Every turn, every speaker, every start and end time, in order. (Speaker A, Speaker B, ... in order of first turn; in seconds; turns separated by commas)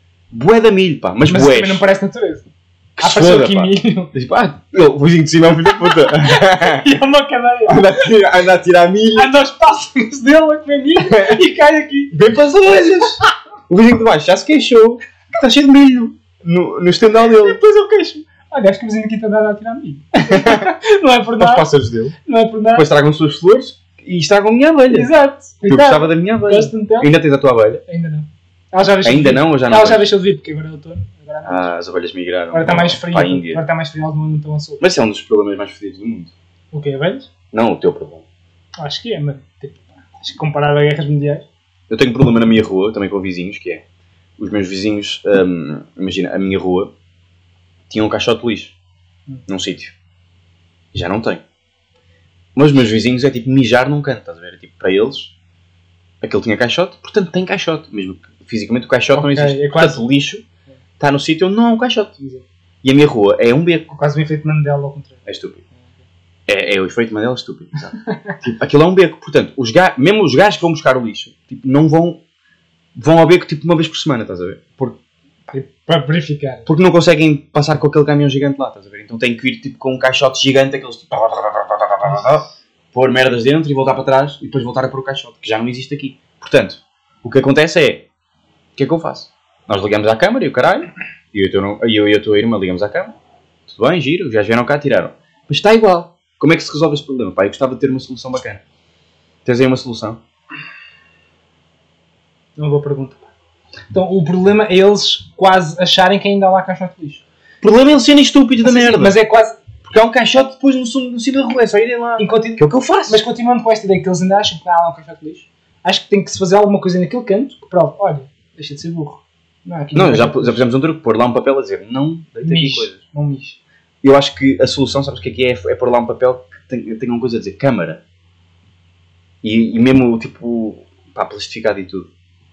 Speaker A: 0.3-1.8, Speaker B: 1.3-2.4, Speaker A: 3.0-6.9, Speaker B: 3.0-4.1, Speaker B: 5.9-8.1, Speaker A: 7.7-9.3, Speaker B: 9.2-12.2, Speaker A: 11.1-11.5, Speaker A: 12.1-17.6, Speaker B: 12.8-13.3, Speaker B: 17.4-21.7, Speaker A: 20.3-20.7, Speaker A: 21.4-22.1, Speaker B: 22.2-22.9, Speaker A: 22.8-25.1, Speaker B: 24.9-27.1, Speaker A: 25.7-27.8, Speaker B: 27.9-31.7, Speaker A: 29.0-30.1, Speaker A: 31.4-33.6, Speaker B: 32.5-34.9, Speaker A: 34.8-36.3, Speaker B: 36.7-37.3, Speaker A: 37.5-38.3, Speaker B: 38.8-41.5, Speaker A: 41.9-43.8, Speaker A: 44.4-46.9, Speaker A: 47.9-48.7, Speaker A: 49.5-49.9, Speaker A: 50.9-51.4, Speaker A: 52.6-55.3, Speaker A: 56.2-60.5, Speaker B: 59.1-60.0, Speaker A: 61.0-62.1, Speaker B: 62.2-62.5, Speaker A: 62.8-63.9, Speaker B: 63.9-66.0, Speaker A: 65.3-65.6, Speaker A: 66.5-72.2, Speaker A: 73.0-75.0, Speaker B: 75.5-76.7, Speaker A: 76.7-88.0, Speaker A: 88.8-98.6, Speaker A: 99.5-100.2, Speaker B: 102.6-103.3, Speaker B: 103.9-107.2, Speaker A: 107.6-109.2, Speaker B: 108.6-109.6, Speaker A: 109.8-113.2, Speaker B: 112.2-120.6, Speaker A: 120.0-123.0, Speaker B: 122.4-123.6, Speaker A: 124.0-128.0, Speaker A: 129.4-132.1